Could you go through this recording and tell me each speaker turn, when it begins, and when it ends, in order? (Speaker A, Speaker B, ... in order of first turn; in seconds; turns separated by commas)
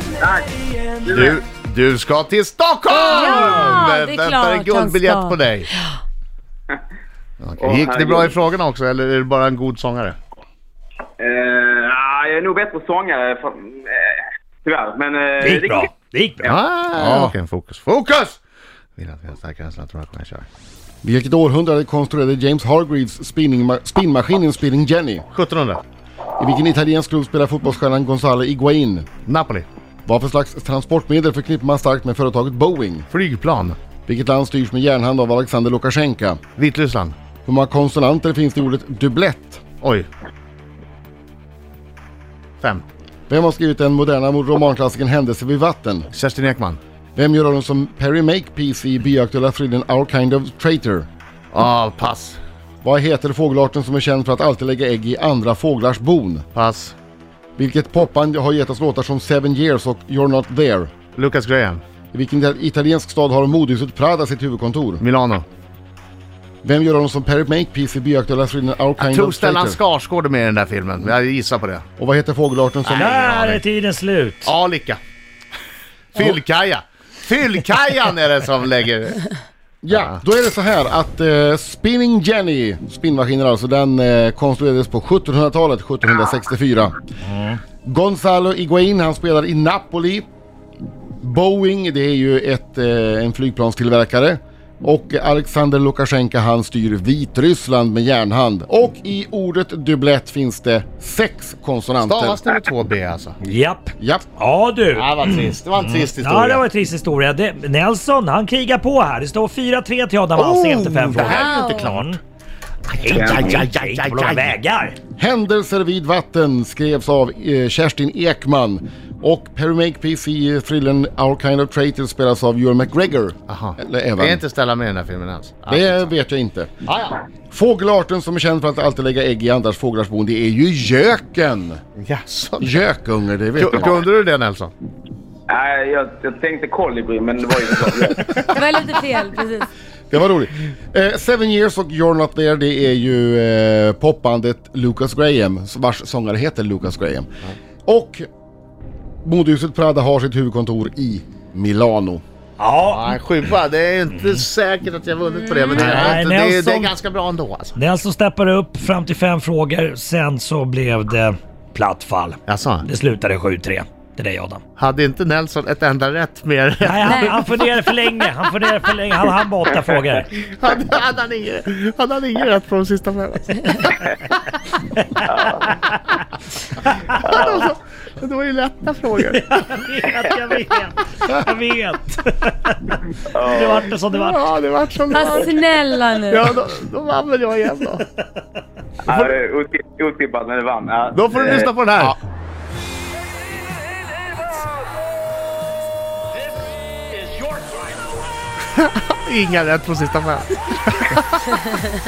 Speaker A: 0.2-1.4, Speaker B: 1.0-5.7, Speaker C: 2.9-6.0, Speaker B: 7.4-10.2, Speaker A: 7.6-8.3, Speaker A: 11.2-15.9, Speaker D: 15.4-16.5, Speaker B: 16.4-18.4, Speaker E: 17.0-17.3, Speaker B: 19.0-20.4, Speaker E: 21.0-25.3, Speaker B: 25.3-25.8, Speaker E: 26.4-29.1, Speaker B: 29.2-29.7, Speaker E: 30.1-33.1, Speaker B: 33.1-33.8, Speaker E: 34.0-36.4, Speaker B: 36.6-37.1, Speaker E: 37.4-39.6, Speaker B: 39.8-40.1, Speaker E: 43.3-46.1, Speaker B: 46.1-46.8, Speaker E: 47.1-51.1, Speaker B: 51.5-52.4, Speaker E: 52.8-56.5, Speaker B: 56.5-56.9, Speaker E: 57.6-60.9, Speaker B: 61.1-61.8, Speaker E: 62.1-65.0, Speaker B: 65.0-65.4, Speaker E: 66.6-69.8, Speaker B: 69.0-71.8, Speaker E: 72.0-73.3, Speaker B: 72.8-73.6, Speaker D: 72.9-74.5, Speaker B: 74.4-75.0, Speaker B: 76.1-79.2, Speaker E: 79.8-86.9, Speaker D: 87.3-87.6, Speaker E: 87.8-90.2, Speaker E: 91.2-102.4, Speaker B: 102.0-103.4, Speaker D: 103.4-112.2, Speaker E: 104.0-104.2, Speaker B: 104.9-106.6, Speaker B: 110.3-112.1, Speaker C: 111.4-111.9, Speaker B: 112.9-114.5, Speaker D: 113.0-115.0, Speaker A: 113.1-113.6, Speaker E: 115.2-124.4, Speaker B: 123.5-126.1, Speaker E: 125.7-126.7, Speaker B: 126.8-127.2, Speaker E: 127.5-131.8, Speaker B: 132.0-132.8, Speaker E: 132.6-134.0, Speaker B: 133.6-134.7, Speaker A: 135.5-138.4, Speaker C: 138.5-139.7, Speaker E: 140.1-147.3, Speaker E: 147.8-148.2, Speaker E: 149.2-152.2, Speaker D: 152.6-153.2, Speaker B: 152.8-157.8, Speaker D: 155.7-156.9, Speaker D: 157.8-164.6, Speaker B: 162.5-162.8, Speaker B: 164.8-167.6, Speaker D: 166.8-170.3, Speaker B: 170.3-174.0, Speaker A: 175.2-175.8, Speaker A: 177.2-177.7, Speaker B: 177.2-179.6, Speaker D: 179.3-182.9, Speaker A: 183.3-183.9, Speaker D: 183.5-184.4, Speaker B: 184.1-188.0, Speaker C: 185.1-186.6, Speaker A: 189.1-191.7, Speaker B: 191.1-192.2, Speaker B: 198.8-201.5